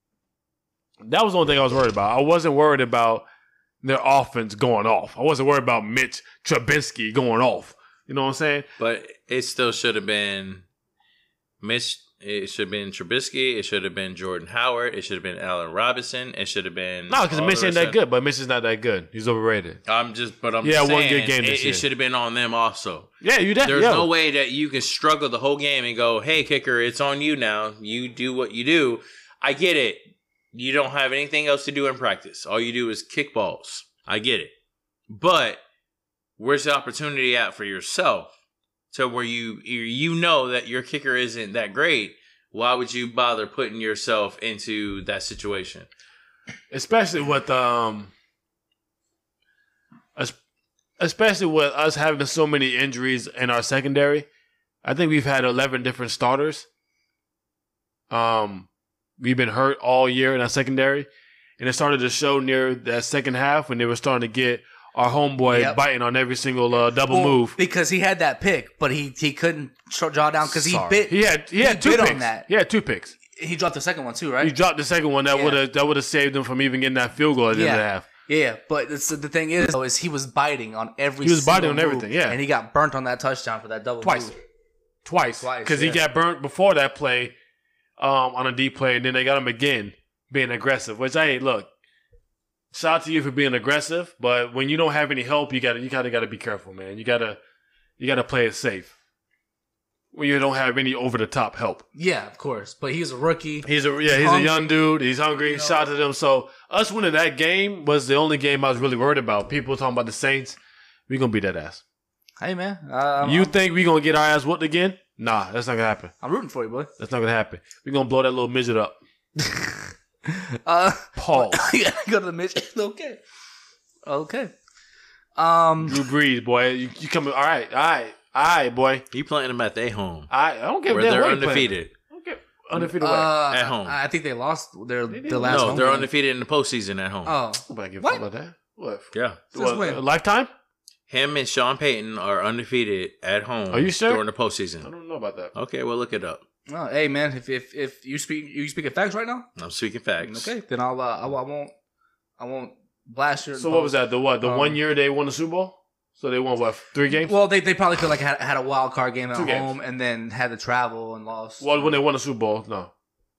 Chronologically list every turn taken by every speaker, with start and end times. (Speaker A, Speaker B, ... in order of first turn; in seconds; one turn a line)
Speaker A: 1.0-3.3
Speaker A: 3.8-8.7
Speaker B: 8.8-10.6
Speaker B: 11.6-18.0
Speaker A: 17.1-19.8
Speaker B: 19.9-23.1
Speaker A: 20.6-21.9
Speaker A: 23.2-24.1
Speaker B: 23.6-30.0
Speaker B: 30.5-34.5
Speaker B: 35.1-35.6
Speaker B: 36.4-38.3
Speaker B: 38.9-45.9
Speaker A: 46.7-48.1
Speaker A: 51.0-54.3
Speaker A: 54.8-56.7
Speaker A: 58.1-58.7
Speaker A: 59.2-61.1
Speaker A: 61.6-67.6
Speaker C: 65.5-65.8
Speaker C: 67.1-72.5
Speaker A: 70.5-73.1
Speaker C: 73.3-74.5
Speaker A: 74.4-78.1
Speaker C: 75.3-75.6
Speaker C: 77.5-84.4
Speaker A: 81.2-82.4
Speaker A: 84.0-84.3
Speaker A: 85.0-87.3
Speaker C: 85.4-86.0
Speaker A: 88.0-91.7
Speaker A: 92.7-97.4
Speaker A: 98.0-98.9
Speaker A: 100.1-101.8
Speaker C: 102.0-104.6
Speaker A: 103.7-110.6
Speaker C: 105.4-105.8
Speaker A: 111.1-111.8
Speaker C: 112.4-113.5
Speaker A: 113.2-116.1
Speaker C: 116.2-116.9
Speaker A: 117.0-119.0
Speaker C: 119.4-123.2
Speaker A: 121.2-121.6
Speaker C: 124.1-124.5
Speaker C: 125.4-126.0
Speaker A: 125.9-129.0
Speaker B: 129.1-130.3
Speaker A: 130.3-133.4
Speaker B: 130.9-131.9
Speaker C: 132.8-136.1
Speaker B: 133.5-133.9
Speaker A: 135.1-135.9
Speaker B: 135.4-137.3
Speaker C: 137.3-138.2
Speaker A: 137.7-140.5
Speaker B: 139.1-139.4
Speaker C: 139.5-140.0
Speaker B: 141.1-144.9
Speaker A: 143.7-144.2
Speaker A: 144.8-145.5
Speaker B: 145.5-146.4
Speaker C: 146.7-149.5
Speaker B: 149.6-150.5
Speaker C: 150.2-151.7
Speaker C: 152.4-154.8
Speaker A: 153.6-157.3
Speaker C: 157.2-161.9
Speaker A: 159.3-159.7
Speaker A: 161.6-162.9